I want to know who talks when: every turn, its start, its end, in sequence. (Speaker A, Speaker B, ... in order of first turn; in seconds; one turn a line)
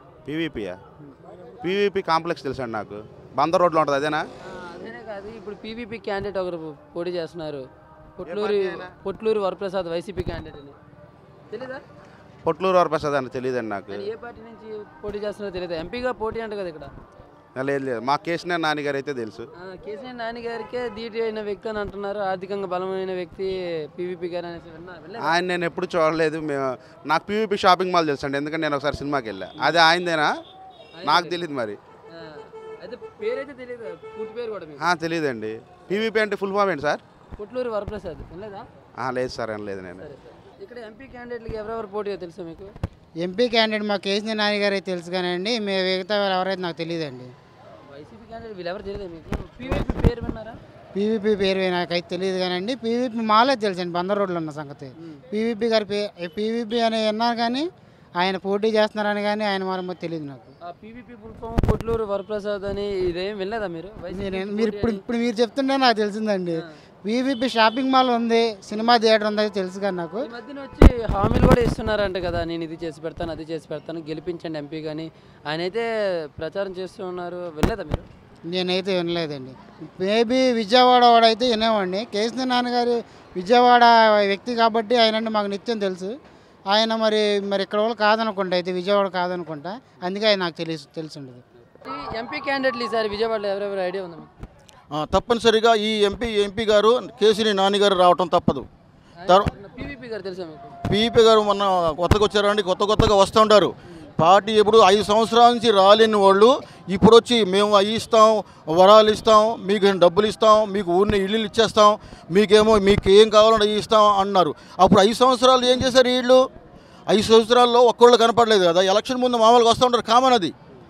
Speaker A: 0.2-0.8
Speaker A: 1.6-4.2
Speaker B: 4.4-7.7
Speaker B: 8.2-10.8
Speaker A: 8.2-8.9
Speaker B: 11.5-11.8
Speaker A: 12.4-14.1
Speaker B: 13.9-16.9
Speaker A: 17.5-19.5
Speaker B: 19.6-25.4
Speaker A: 25.2-30.3
Speaker B: 30.9-31.4
Speaker A: 31.0-31.8
Speaker B: 32.1-34.9
Speaker A: 34.8-37.0
Speaker B: 37.4-38.6
Speaker A: 39.0-40.1
Speaker B: 40.0-42.7
Speaker C: 43.2-47.3
Speaker B: 47.9-50.6
Speaker C: 50.9-57.7
Speaker C: 58.2-60.5
Speaker B: 60.6-65.0
Speaker C: 64.1-70.3
Speaker B: 70.2-78.1
Speaker C: 78.5-86.1
Speaker C: 86.7-91.4
Speaker B: 91.6-94.3
Speaker D: 94.9-98.7
Speaker B: 99.2-100.7
Speaker D: 100.9-116.4
Speaker D: 117.1-120.5